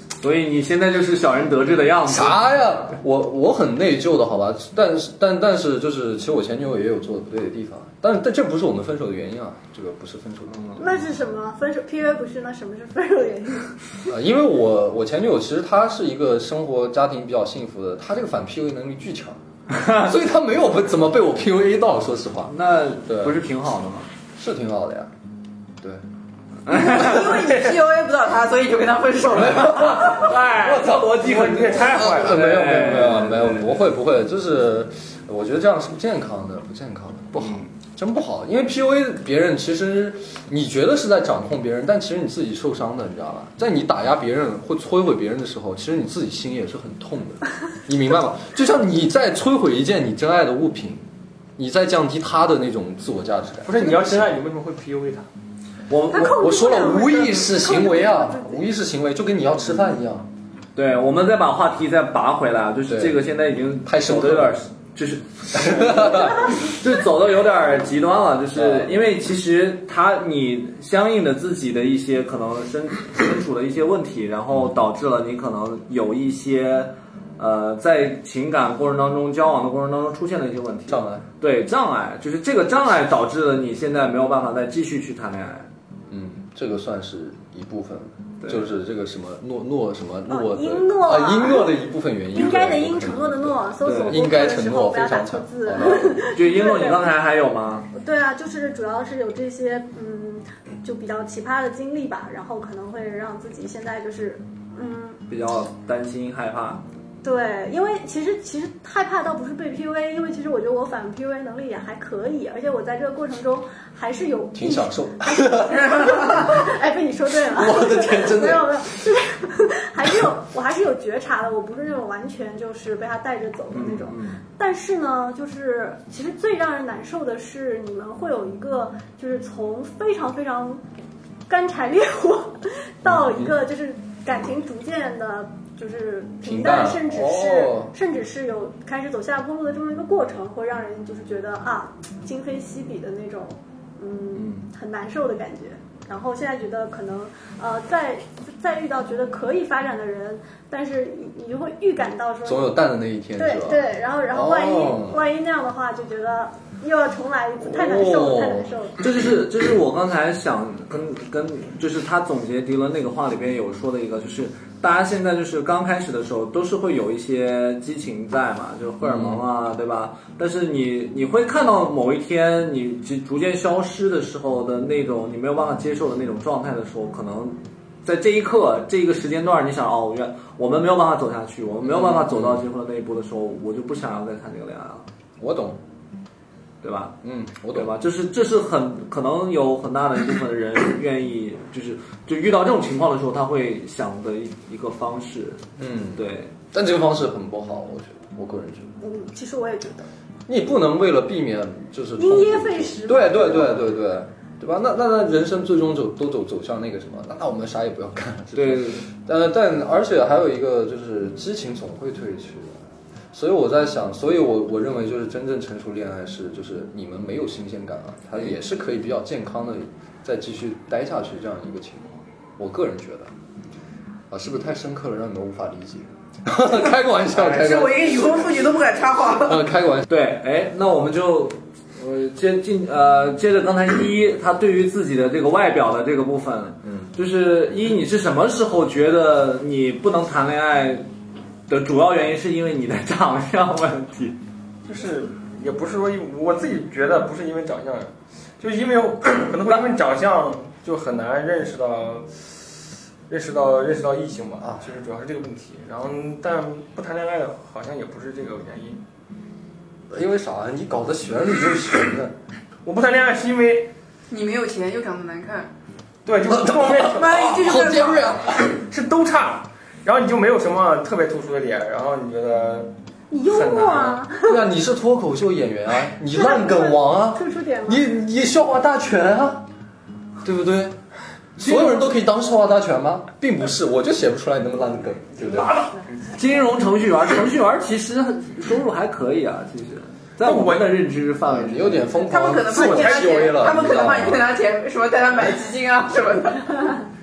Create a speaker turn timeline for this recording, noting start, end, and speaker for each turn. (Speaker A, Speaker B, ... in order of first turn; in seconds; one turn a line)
Speaker A: 0.2-2.4
Speaker B: 2.1-10.6
Speaker A: 10.5-10.8
Speaker C: 10.8-13.8
Speaker B: 14.1-23.4
Speaker A: 19.8-20.0
Speaker A: 22.5-24.1
Speaker B: 24.4-25.1
Speaker A: 26.7-27.4
Speaker D: 26.7-30.3
Speaker B: 29.3-30.3
Speaker A: 29.9-33.8
Speaker E: 30.3-33.0
Speaker B: 31.8-51.0
Speaker A: 37.4-37.7
Speaker B: 51.6-54.4
Speaker E: 53.6-55.3
Speaker B: 55.9-60.3
Speaker C: 56.1-58.6
Speaker A: 60.8-85.7
Speaker B: 62.9-63.2
Speaker B: 63.9-64.5
Speaker B: 65.5-66.6
Speaker B: 68.5-69.0
Speaker B: 80.9-81.2
Speaker B: 86.1-96.3
Speaker C: 90.3-91.8
Speaker C: 92.3-97.1
Speaker A: 93.8-94.2
Speaker A: 96.3-97.9
Speaker C: 97.9-105.2
Speaker A: 105.3-106.8
Speaker C: 107.2-130.8
Speaker B: 114.5-116.6
Speaker D: 115.8-116.5
Speaker B: 117.3-119.0
Speaker A: 123.7-124.4
Speaker C: 131.5-152.8
Speaker B: 133.1-133.5
Speaker B: 136.4-137.9
Speaker B: 152.4-155.2
Speaker C: 153.4-159.0
Speaker B: 157.7-158.7
Speaker A: 159.0-185.0
Speaker B: 169.0-169.4
Speaker B: 181.8-182.7
Speaker B: 185.4-185.8
Speaker A: 186.8-187.2
Speaker B: 187.2-187.9
Speaker A: 187.7-195.6
Speaker B: 195.8-198.9
Speaker A: 196.2-196.5
Speaker C: 199.0-200.1
Speaker B: 200.5-212.8
Speaker C: 202.2-203.8
Speaker A: 208.5-209.1
Speaker B: 213.3-223.3
Speaker B: 224.3-228.3
Speaker D: 227.6-229.6
Speaker B: 229.3-230.1
Speaker A: 230.1-241.1
Speaker B: 236.8-237.1
Speaker A: 241.7-244.4
Speaker E: 244.9-252.5
Speaker E: 253.3-259.0
Speaker B: 254.6-254.9
Speaker B: 260.1-262.4
Speaker E: 262.9-263.9
Speaker D: 264.3-265.7
Speaker E: 266.2-267.6
Speaker B: 266.5-268.8
Speaker D: 267.1-268.4
Speaker E: 268.8-272.9
Speaker C: 273.3-274.6
Speaker E: 273.5-274.2
Speaker B: 274.4-279.7
Speaker C: 276.3-278.0
Speaker B: 280.4-281.0
Speaker B: 281.6-285.8
Speaker A: 281.6-282.1
Speaker E: 285.4-286.4
Speaker A: 286.3-292.1
Speaker E: 290.4-291.0
Speaker B: 291.4-294.5
Speaker D: 292.3-297.0
Speaker E: 292.8-293.4